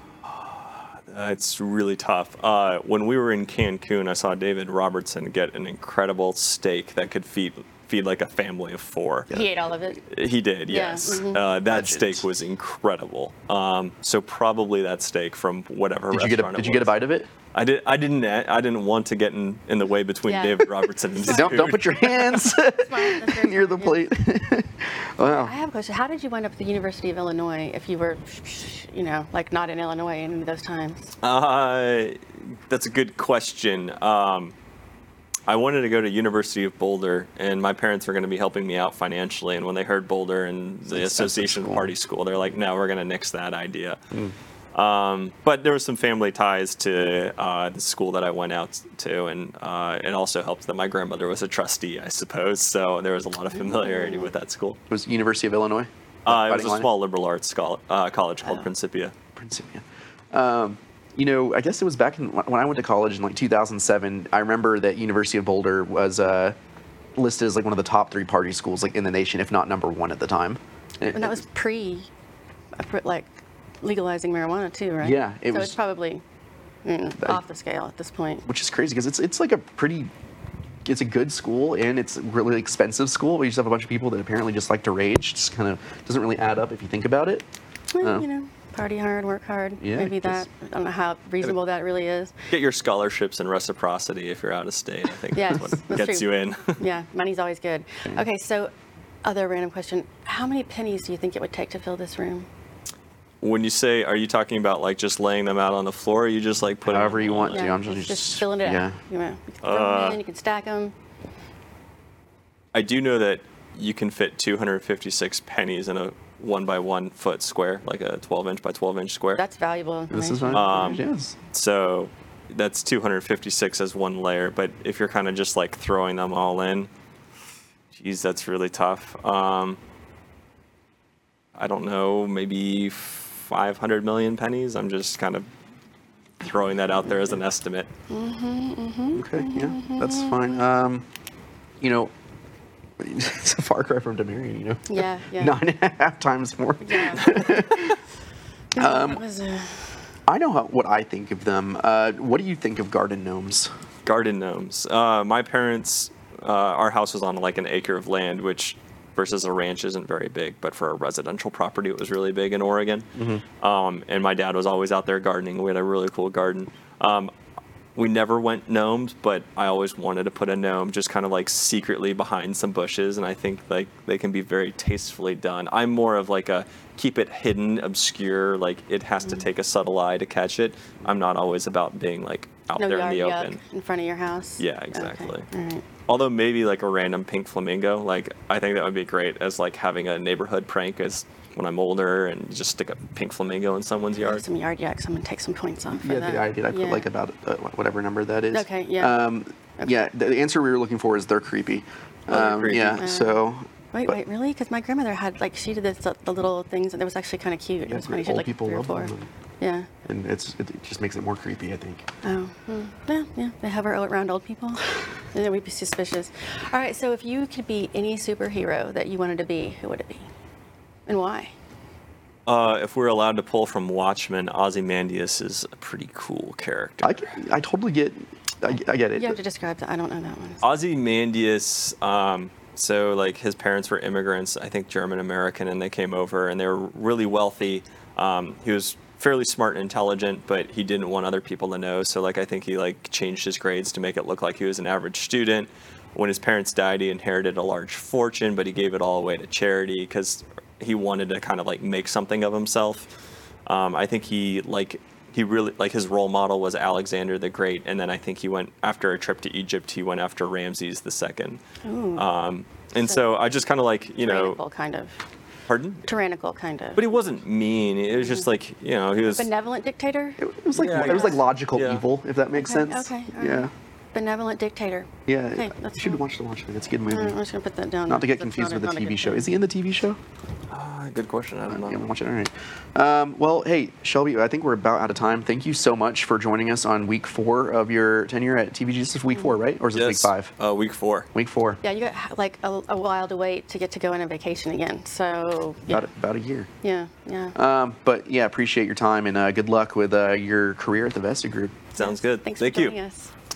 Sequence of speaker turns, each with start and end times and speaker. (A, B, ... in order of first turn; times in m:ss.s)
0:00.3-0:09.3 A
0:09.3-0:10.0 B
0:10.1-0:16.9 A
0:10.7-0:11.4 B
0:11.7-0:12.2 C
0:16.1-0:17.3 C
0:17.5-0:22.4 A
0:20.2-0:24.1 B
0:21.2-0:25.5 C
0:25.4-0:31.1 B
0:31.2-0:34.5 A
0:35.5-0:44.0 A
0:40.9-0:41.9 C
0:44.7-0:54.8 A
0:53.6-0:54.3 B
0:54.9-0:56.9 C
0:56.2-0:59.1 A
0:59.4-1:06.6 C
1:07.2-1:11.4 C
1:11.1-1:12.1 B
1:12.8-1:16.2 B
1:15.0-1:15.8 C
1:16.8-1:18.4 B
1:18.5-1:20.1 C
1:20.8-1:27.5 C
1:27.9-1:32.3 B
1:28.0-1:28.2 C
1:29.8-1:30.4 C
1:32.5-1:36.8 A
1:35.3-1:38.7 B
1:39.2-1:42.5 B
1:43.4-1:47.6 A
1:46.8-1:49.0 C
1:47.5-1:50.9 B
1:49.6-1:50.2 A
1:52.7-1:59.4 A
1:59.3-2:00.7 B
2:00.1-2:01.3 C
2:00.5-2:06.9 A
2:07.9-2:09.8 A
2:11.6-2:15.5 A
2:16.4-2:17.9 A
2:18.1-2:20.6 B
2:19.1-2:21.0 C
2:21.8-2:22.1 C
2:23.0-2:28.0 C
2:24.9-2:25.6 B
2:26.8-2:27.5 B
2:28.7-2:30.0 B
2:28.8-2:29.2 C
2:30.3-2:33.7 C
2:34.0-2:43.1 A
2:43.2-2:43.4 C
2:43.6-2:47.3 A
2:48.0-3:03.6 A
3:02.8-3:05.8 B
3:04.6-3:05.5 A
3:06.1-3:14.4 A
3:14.2-3:17.1 B
3:15.9-3:24.2 C
3:18.5-3:19.2 B
3:22.3-3:23.0 A
3:22.7-3:29.9 B
3:27.9-3:29.3 C
3:30.0-3:32.0 C
3:32.2-3:40.3 B
3:41.1-3:41.5 B
3:42.4-3:47.4 A
3:47.0-3:49.4 C
3:49.1-3:50.6 B
3:50.6-4:13.1 A
4:13.6-4:21.6 A
4:21.8-4:22.2 B
4:22.2-4:24.6 A
4:23.0-4:23.5 B
4:24.2-4:25.2 B
4:25.7-4:26.1 A
4:26.0-4:27.0 B
4:27.0-4:29.5 A
4:29.2-4:31.4 B
4:30.4-4:33.7 C
4:30.7-4:32.0 A
4:32.5-4:36.2 B
4:35.3-4:37.4 C
4:37.1-4:39.5 B
4:38.1-4:40.2 C
4:40.7-4:42.0 A
4:41.7-4:50.5 C
4:49.9-4:51.3 A
4:51.3-4:51.8 C
4:51.8-4:56.0 B
4:55.9-4:56.7 C
4:56.8-4:57.6 B
4:57.6-5:01.8 C
5:01.9-5:03.0 A
5:02.0-5:03.3 B